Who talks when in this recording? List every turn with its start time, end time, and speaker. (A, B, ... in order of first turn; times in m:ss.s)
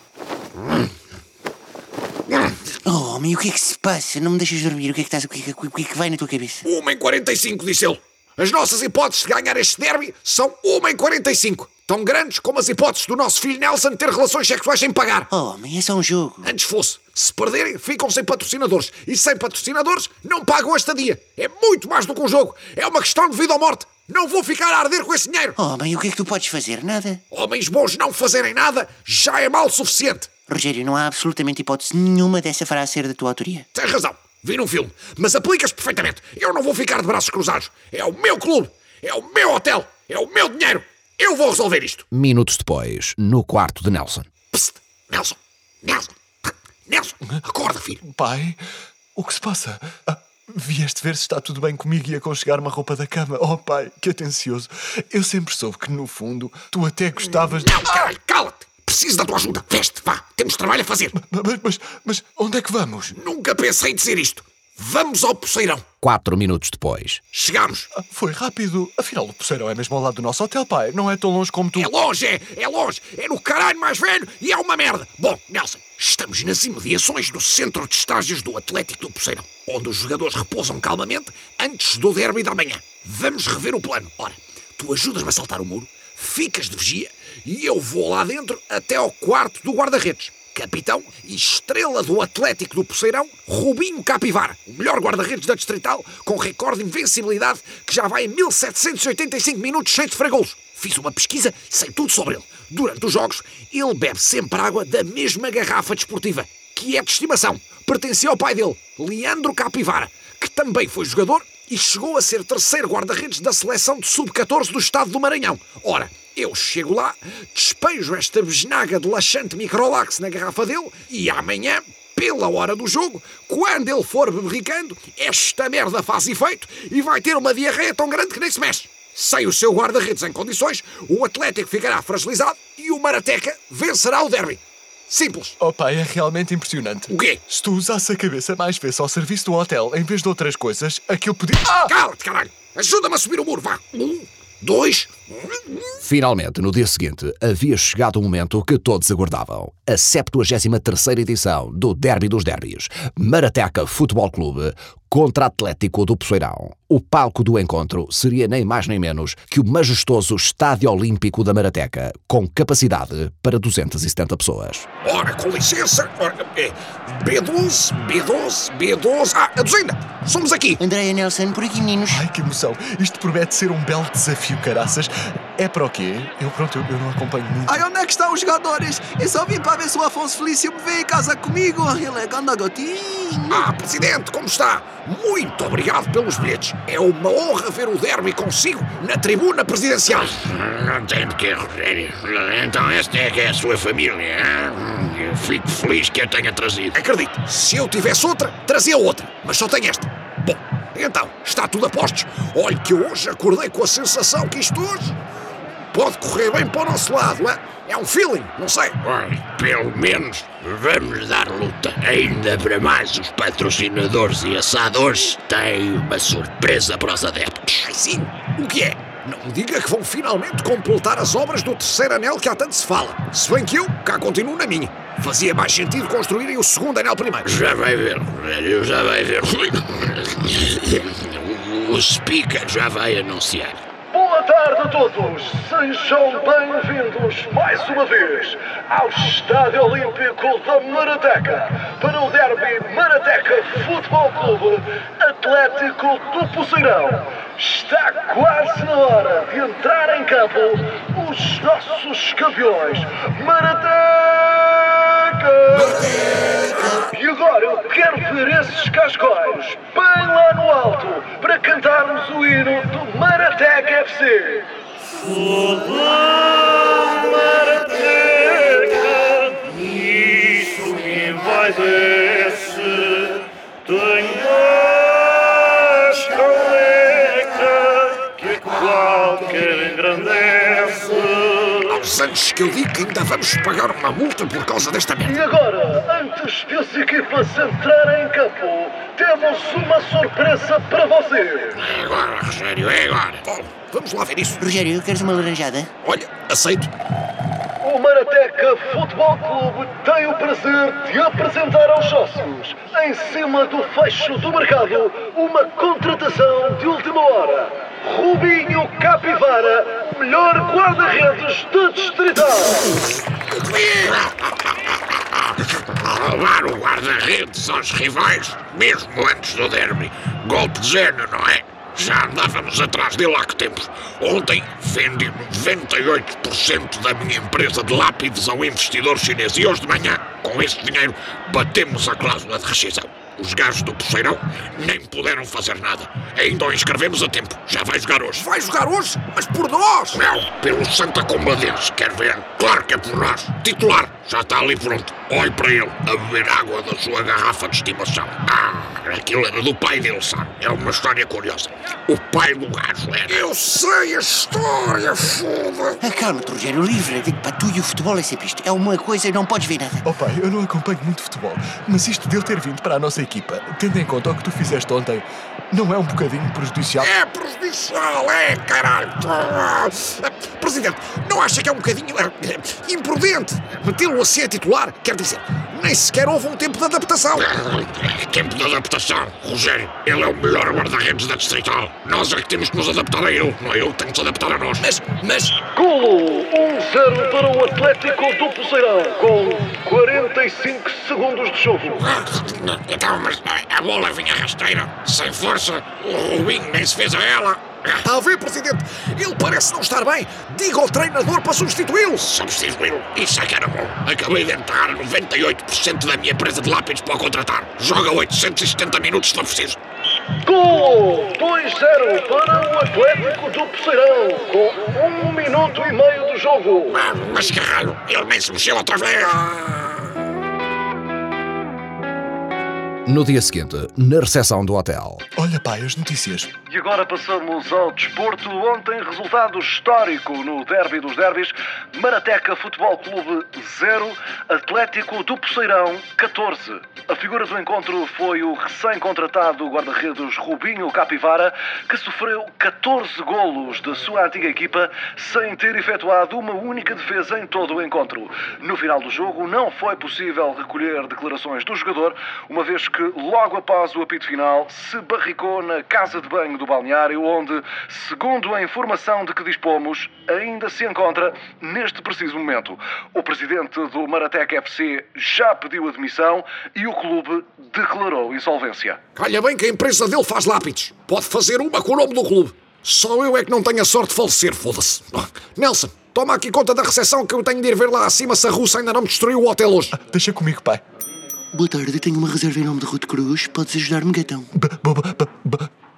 0:02.7-0:06.6 A
0:06.6-0:15.3 B
0:15.3-0:16.5 A
0:16.4-0:25.6 B
0:25.6-0:27.2 A
0:27.3-0:30.3 B
0:30.5-0:33.6 A
0:33.7-0:42.0 B
0:42.1-0:44.3 C
0:44.5-0:46.1 B
0:46.9-0:48.0 B
0:48.0-0:48.6 D
0:49.2-0:58.1 D
0:57.5-1:01.2 B
1:01.1-1:03.1 D
1:03.1-1:05.9 B
1:06.0-1:07.2 C
1:07.3-1:07.9 B
1:07.9-1:11.9 D
1:11.8-2:15.5 B
2:15.6-2:21.9 D
2:17.1-2:17.4 B
2:21.8-2:25.9 B
2:26.0-2:44.9 C
2:45.0-2:50.8 B
2:50.8-2:52.2 A
2:52.1-2:58.1 D
2:58.8-2:59.2 D
2:59.2-3:01.8 E
3:01.2-3:02.0 D
3:02.3-3:03.2 E
3:03.5-3:10.4 B
3:10.4-3:17.0 F
3:16.9-3:25.2 B
3:25.9-3:29.0 B
3:29.0-3:37.9 F
3:37.9-3:47.5 B
3:47.4-3:53.8 F
3:54.1-4:16.0 G
4:15.8-4:16.8 B
4:16.8-4:24.7 G
4:25.8-4:26.2 G
4:27.1-4:29.0 G
4:30.3-4:31.6 F
4:32.4-4:32.8 G
4:34.1-4:34.5 G
4:36.1-4:37.7 G
4:38.2-4:41.1 G
4:41.7-4:45.4 B
4:45.2-4:51.8 G
4:51.8-4:53.4 F
4:53.4-4:54.7 B
4:54.6-4:55.9 A
4:56.0-4:56.9 B
4:57.8-5:12.8 G
5:13.5-5:38.4 F
5:38.3-5:40.2 B
5:40.1-5:53.4 F
5:53.3-5:56.0 B
5:56.0-6:00.0 A
6:00.0-6:07.1 D
6:07.0-6:17.5 B
6:17.4-6:25.0 F
6:24.9-6:25.5 B
6:25.6-6:32.0 G
6:32.2-6:37.9 F
6:38.0-6:42.4 B
6:42.4-6:49.8 F
6:50.4-6:57.0 G
6:56.9-6:59.8 F
7:03.0-7:05.2 C
7:05.4-7:06.5 D
7:06.7-7:49.0 G
7:49.2-8:00.0 B
7:59.9-8:00.8 D
8:01.5-8:04.5 A
8:04.6-8:05.7 D